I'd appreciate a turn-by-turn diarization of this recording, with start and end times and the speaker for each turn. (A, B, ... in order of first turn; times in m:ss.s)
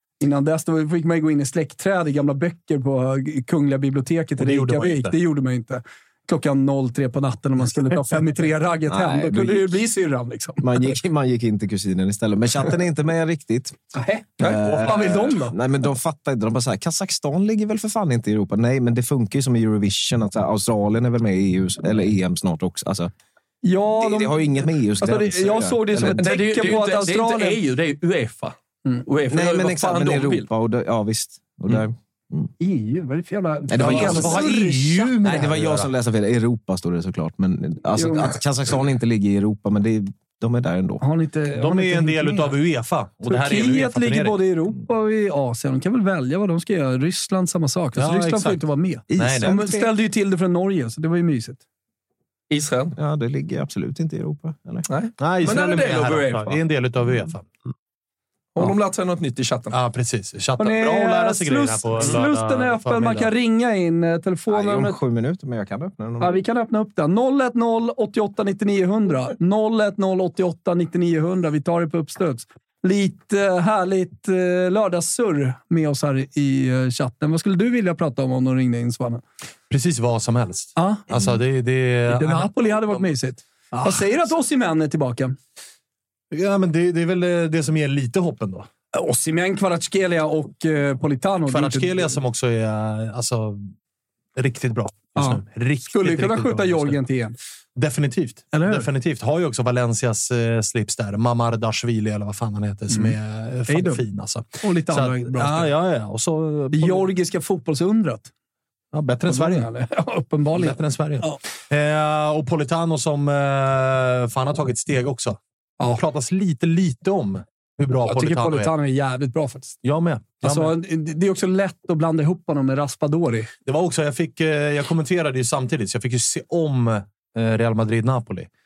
0:00.2-0:10.6 A
0:04.4-0:05.2 B
0:08.9-0:09.8 C
0:10.6-0:13.8 C
0:13.9-0:15.6 A
0:14.4-0:23.1 C
0:23.6-0:27.6 A
0:24.0-0:26.4 C
0:26.2-0:30.5 D
0:29.3-0:32.5 C
0:32.6-0:35.2 A
0:33.7-0:41.0 C
0:33.8-0:35.9 B
0:38.0-0:38.4 A
0:41.0-0:42.6 A
0:41.6-0:44.4 B
0:43.2-0:51.6 A
0:48.0-0:49.6 B
0:49.1-0:49.9 C
0:52.5-0:53.0 D
0:53.0-0:54.9 C
0:54.9-0:56.6 D
0:55.2-0:57.5 B
0:58.6-0:59.8 D
0:59.7-1:03.3 B
1:00.6-1:05.0 A
1:04.5-1:06.4 C
1:06.2-1:19.2 A
1:19.7-1:22.5 B
1:20.8-1:21.1 A
1:22.1-1:25.4 A
1:26.3-1:28.7 B
1:28.9-1:32.1 A
1:31.5-1:33.7 B
1:34.4-1:37.0 B
1:35.2-1:37.4 A
1:37.8-1:47.1 B
1:38.5-1:38.9 A
1:43.7-1:44.0 A
1:44.6-1:45.7 A
1:46.7-1:48.3 A
1:48.9-1:49.7 B
1:49.3-1:51.4 A
1:50.5-1:58.7 B
1:58.0-1:59.8 A
1:59.8-2:00.8 B
2:00.4-2:03.5 A
2:03.7-2:08.5 B